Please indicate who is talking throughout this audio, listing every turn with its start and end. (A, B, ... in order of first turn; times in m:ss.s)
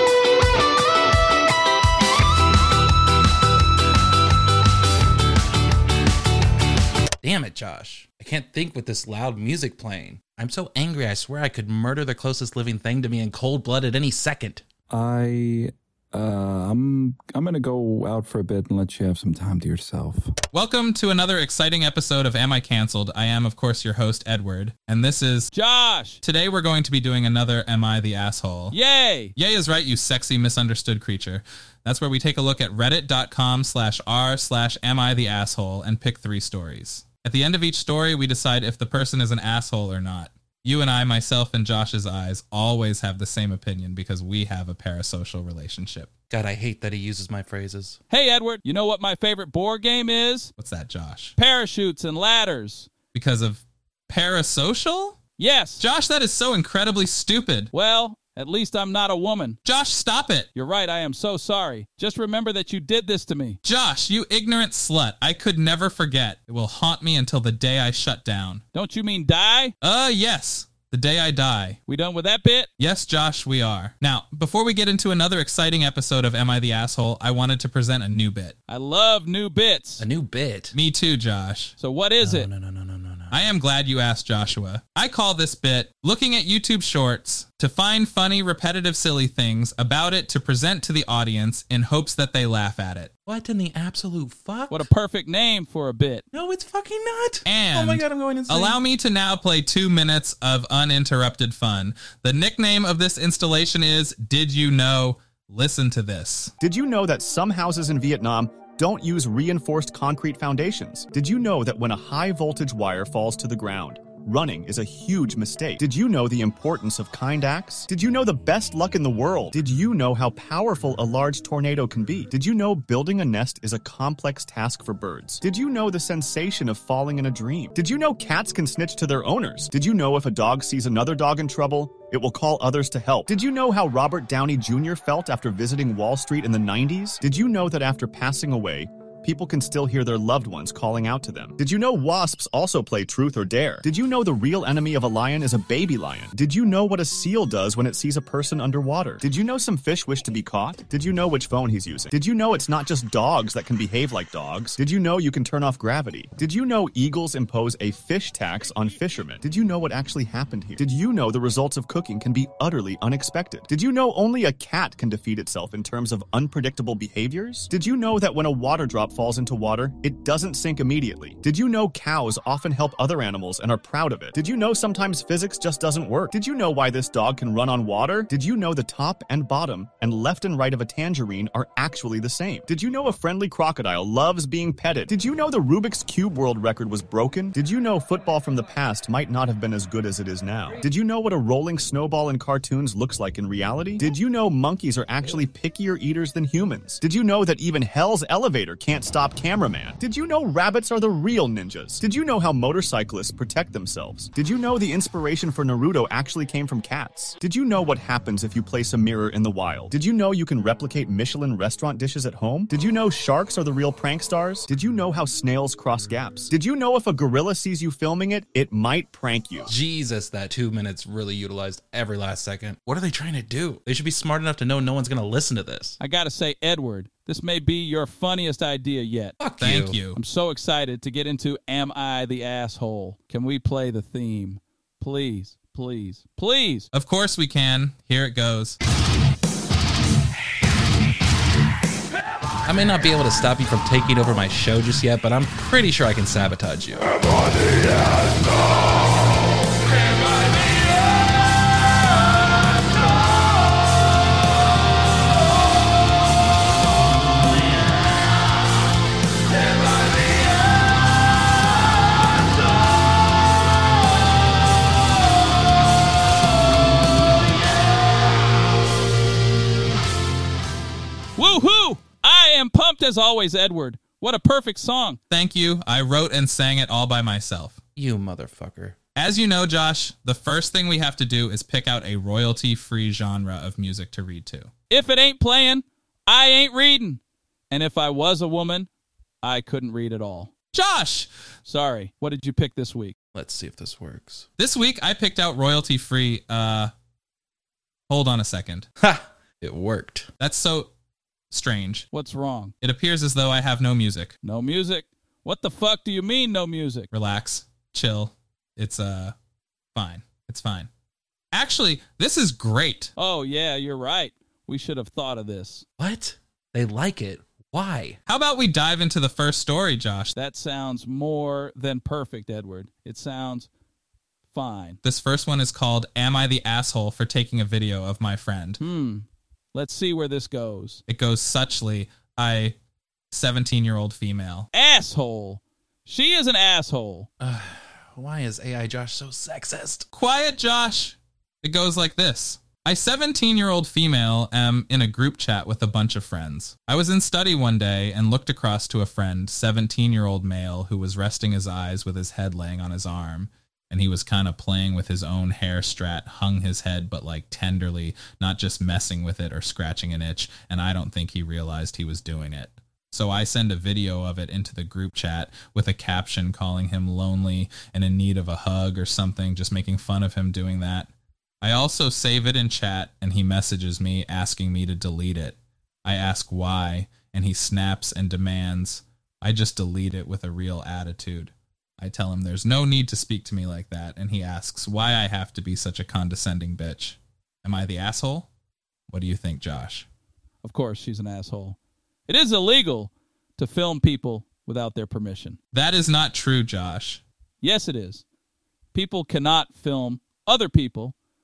0:07.2-0:14.6 A
0:14.9-0:20.3 B
0:20.5-0:25.5 C
0:25.5-0:26.2 D
0:26.2-0:28.8 C
0:28.7-0:29.3 D
0:29.4-0:46.1 C
0:46.3-0:48.0 A
0:48.1-0:50.5 D
0:50.6-0:51.3 C
0:51.4-0:52.9 D
0:53.1-0:55.2 C
0:55.4-0:55.8 D
0:55.8-0:57.7 C
0:57.7-0:59.6 D
0:59.6-1:00.5 C
1:00.5-1:03.6 D
1:03.6-1:08.6 C
1:08.7-1:09.7 D
1:09.8-1:11.8 C
1:11.9-1:12.7 D
1:12.8-1:18.6 C
1:18.7-1:20.0 D
1:20.0-1:20.7 A
1:20.7-1:21.7 C
1:21.8-1:22.5 D
1:22.2-1:23.5 A
1:23.3-1:33.1 C
1:33.3-1:34.9 A
1:34.7-1:36.2 D
1:36.3-1:38.8 A
1:37.4-1:46.5 C
1:46.6-3:39.7 E
3:39.7-3:46.0 A
3:46.0-3:49.4 D
3:49.4-3:50.0 A
3:49.6-3:50.2 C
3:50.1-3:56.9 D
3:56.9-3:58.8 C
4:02.6-4:07.1 A
4:31.4-4:35.2 D
4:35.3-4:37.8 C
4:38.0-4:39.0 A
4:39.2-4:44.7 C
4:44.9-4:48.9 D
4:49.4-4:50.5 D
4:50.7-4:51.3 C
4:51.6-4:53.1 D
4:53.3-4:54.5 A
4:54.6-4:56.9 C
4:58.1-4:58.9 C
4:59.0-5:00.3 A
5:00.4-5:00.9 C
5:01.5-5:02.1 C
5:02.1-5:02.7 D
5:02.8-5:04.3 C
5:04.4-5:07.1 D
5:07.1-5:09.3 C
5:09.9-5:10.9 C
5:11.5-5:13.1 C
5:13.2-5:15.8 D
5:16.0-5:18.2 A
5:18.3-5:20.3 C
5:20.3-5:23.7 D
5:24.5-5:25.0 D
5:25.0-5:28.8 C
5:28.8-5:31.0 D
5:31.1-5:32.8 C
5:33.3-5:34.7 C
5:34.7-5:37.3 D
5:37.4-5:40.0 A
5:40.1-6:11.1 C
6:11.6-6:28.5 C
6:29.1-6:30.1 C
6:30.6-6:31.8 D
6:32.3-6:35.6 D
6:35.7-6:37.2 C
6:37.6-6:38.2 D
6:38.9-6:41.1 D